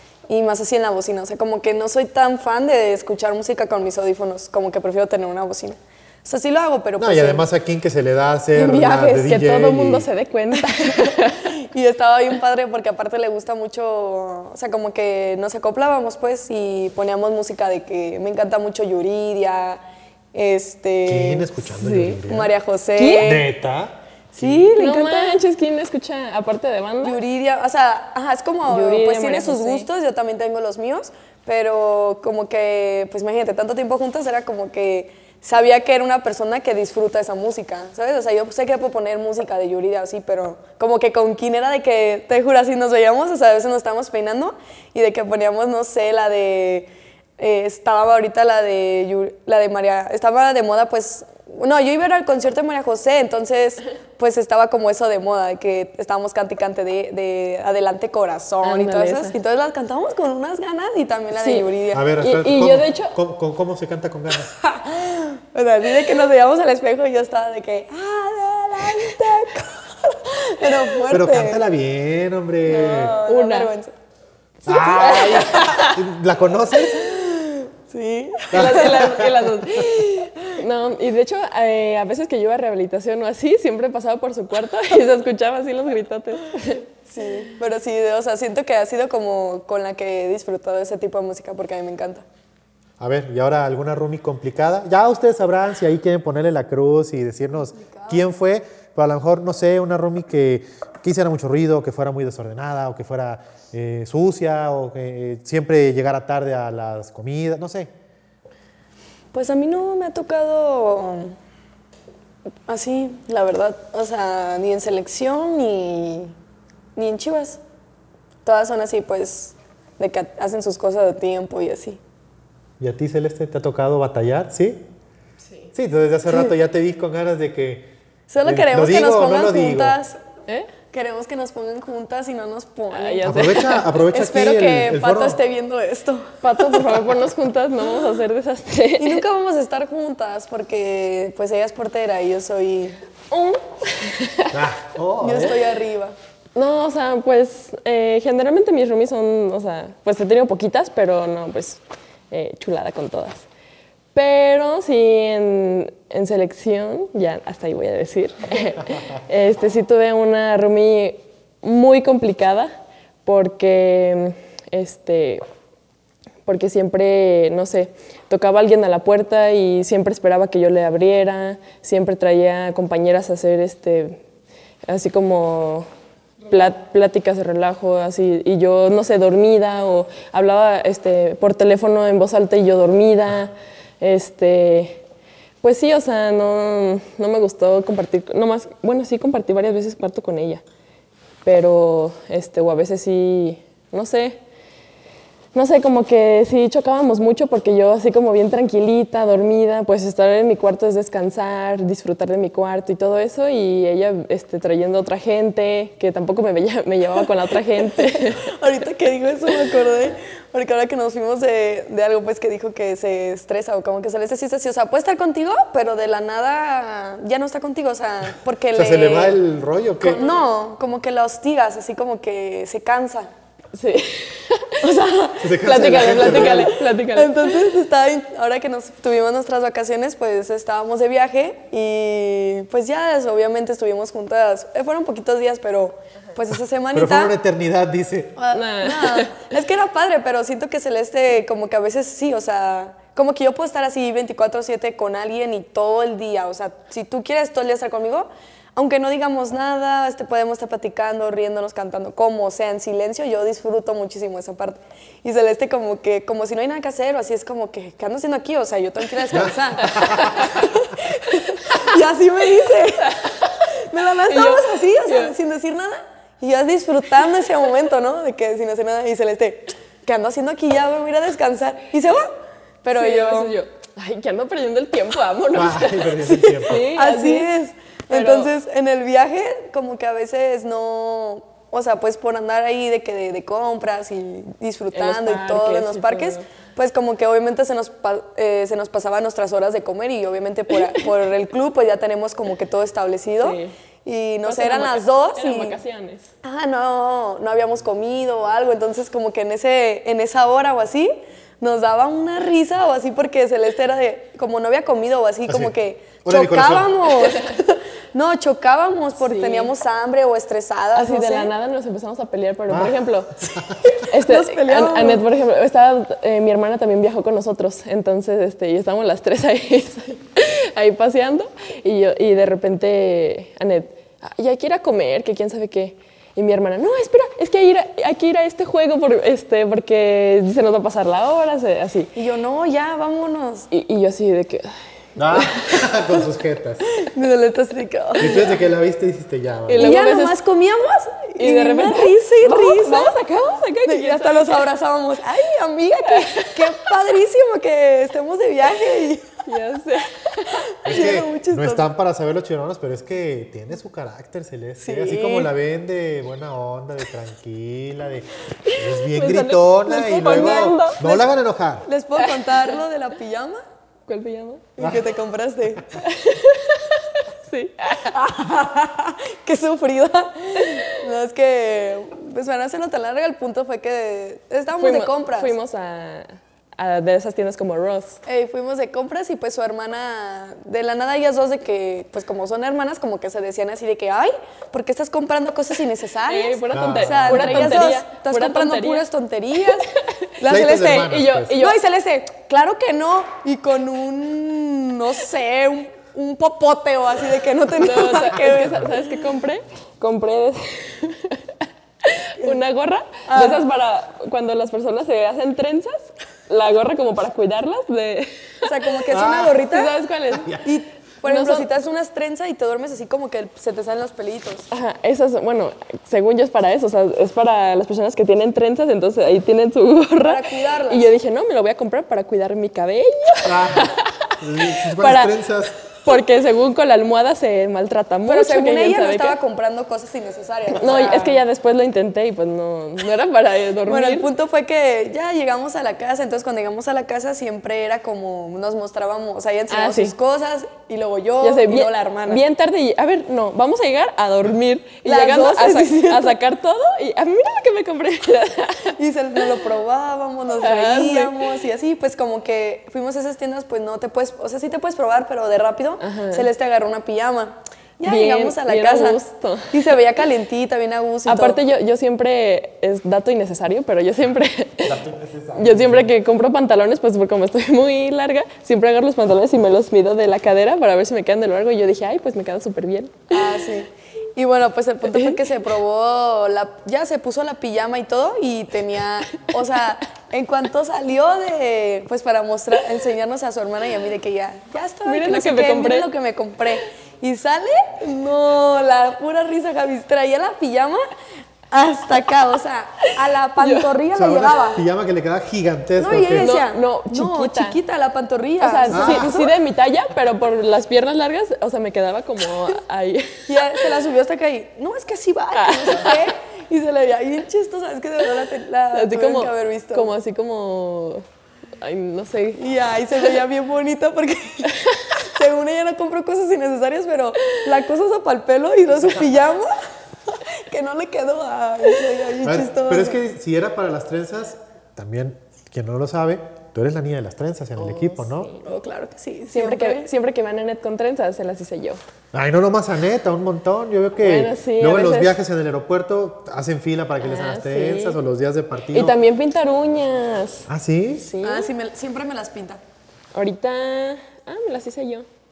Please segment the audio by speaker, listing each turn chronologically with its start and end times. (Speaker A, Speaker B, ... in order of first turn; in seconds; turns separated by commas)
Speaker A: 0.3-7.5, Speaker B: 7.0-10.1, Speaker A: 8.6-9.0, Speaker C: 8.6-11.6, Speaker A: 10.7-19.8, Speaker A: 20.3-21.5, Speaker B: 21.1-22.5, Speaker C: 21.8-22.2, Speaker A: 22.2-23.5, Speaker C: 23.0-23.4, Speaker B: 23.2-24.7, Speaker A: 24.3-25.4, Speaker C: 24.8-27.2, Speaker A: 27.0-62.1, Speaker C: 28.7-29.9, Speaker C: 58.6-59.4, Speaker C: 61.4-61.7, Speaker B: 61.9-64.5, Speaker C: 62.2-63.2, Speaker A: 64.6-71.6, Speaker B: 71.1-73.2, Speaker A: 72.6-73.9, Speaker C: 73.2-73.7, Speaker B: 74.7-77.2, Speaker C: 74.7-76.0, Speaker A: 74.7-75.7, Speaker A: 76.9-79.2, Speaker B: 78.5-79.4, Speaker C: 78.5-86.8, Speaker A: 87.1-92.2, Speaker B: 93.0-107.9, Speaker A: 97.7-98.2, Speaker A: 109.3-111.3, Speaker A: 112.7-116.3, Speaker A: 117.0-117.6, Speaker A: 118.5-122.0, Speaker B: 122.8-124.9, Speaker B: 125.7-127.9, Speaker A: 128.3-130.2, Speaker B: 128.4-130.0, Speaker A: 130.9-136.8, Speaker C: 132.9-133.9, Speaker B: 133.2-135.4, Speaker C: 136.4-139.2, Speaker A: 139.0-143.0, Speaker C: 143.3-144.5, Speaker B: 144.5-145.6, Speaker A: 145.2-146.2, Speaker C: 146.5-153.4, Speaker C: 154.2-162.7, Speaker C: 163.2-165.4, Speaker C: 166.5-174.2, Speaker C: 174.9-175.9, Speaker C: 176.5-185.0, Speaker C: 185.6-190.6, Speaker C: 191.4-194.4, Speaker C: 195.5-208.5, Speaker A: 207.8-219.4, Speaker B: 218.7-220.2, Speaker A: 220.1-223.3, Speaker C: 223.7-224.8, Speaker A: 224.8-237.3, Speaker B: 225.4-226.8, Speaker C: 225.6-227.5, Speaker B: 236.9-238.4, Speaker A: 238.4-272.3, Speaker C: 238.5-239.3, Speaker B: 259.4-260.5, Speaker C: 259.8-260.7, Speaker C: 261.6-261.9, Speaker C: 263.0-263.7, Speaker C: 264.3-265.3, Speaker A: 272.8-273.5, Speaker C: 272.9-277.5, Speaker B: 275.5-276.9, Speaker A: 276.8-295.8, Speaker C: 278.1-278.5, Speaker C: 284.9-286.5, Speaker C: 293.4-293.7, Speaker C: 294.4-296.3, Speaker A: 296.4-311.5, Speaker B: 305.5-307.0, Speaker C: 309.2-309.7, Speaker C: 310.9-313.4, Speaker B: 312.7-313.9, Speaker A: 314.0-315.2, Speaker C: 314.0-332.1, Speaker A: 332.2-333.7, Speaker C: 333.7-334.8, Speaker B: 335.2-336.8, Speaker A: 337.0-338.5, Speaker B: 338.2-339.9, Speaker C: 339.7-340.4, Speaker A: 339.8-343.2, Speaker C: 341.4-344.6, Speaker A: 343.9-349.4, Speaker C: 346.1-346.8, Speaker C: 349.5-350.7, Speaker A: 350.7-351.9, Speaker B: 350.9-361.9, Speaker A: 354.8-355.5, Speaker C: 358.7-361.0, Speaker A: 359.9-361.3, Speaker A: 361.8-363.6, Speaker C: 362.2-362.8, Speaker C: 364.1-364.7, Speaker A: 364.8-366.0, Speaker B: 364.8-365.0, Speaker C: 366.0-368.1, Speaker A: 368.0-375.5, Speaker C: 374.8-378.2, Speaker A: 378.2-399.1, Speaker C: 386.3-389.0, Speaker B: 386.7-387.8, Speaker C: 389.6-390.1, Speaker B: 390.5-391.6, Speaker C: 390.9-391.8, Speaker C: 397.8-401.5, Speaker C: 402.0-408.7, Speaker A: 403.3-403.6, Speaker A: 408.6-409.9, Speaker B: 409.1-409.6, Speaker C: 409.6-410.6, Speaker B: 410.3-410.7, Speaker A: 410.6-414.7, Speaker C: 411.2-411.7, Speaker C: 414.7-425.4, Speaker A: 420.2-421.1, Speaker B: 423.4-425.8, Speaker C: 426.0-429.4, Speaker A: 428.3-431.4, Speaker C: 430.8-434.3, Speaker A: 433.9-442.4, Speaker C: 439.7-440.1, Speaker C: 441.4-448.9, Speaker A: 445.0-446.4, Speaker A: 449.0-459.2, Speaker C: 450.6-451.5, Speaker C: 456.0-456.5, Speaker C: 458.1-459.7, Speaker A: 459.7-461.6, Speaker C: 461.2-465.0, Speaker B: 464.8-466.1, Speaker C: 465.5-473.3, Speaker A: 473.3-491.0, Speaker C: 475.1-475.4, Speaker C: 485.0-486.1, Speaker A: 491.7-494.8, Speaker C: 493.1-493.9, Speaker B: 494.1-496.5, Speaker A: 496.0-499.6, Speaker C: 496.4-497.8, Speaker C: 498.6-503.9, Speaker B: 498.9-499.3, Speaker A: 503.5-510.1, Speaker C: 505.5-506.2, Speaker C: 508.9-511.2, Speaker C: 511.8-512.6, Speaker A: 512.6-519.8, Speaker C: 514.9-515.1, Speaker A: 520.3-523.2, Speaker B: 522.4-528.5, Speaker C: 527.8-528.6, Speaker A: 528.6-530.1, Speaker C: 529.5-532.0, Speaker B: 532.3-539.2, Speaker C: 534.2-535.4, Speaker C: 537.2-538.2, Speaker C: 538.9-540.7, Speaker B: 540.7-541.3, Speaker C: 541.2-541.7, Speaker A: 541.4-542.8, Speaker C: 543.3-545.2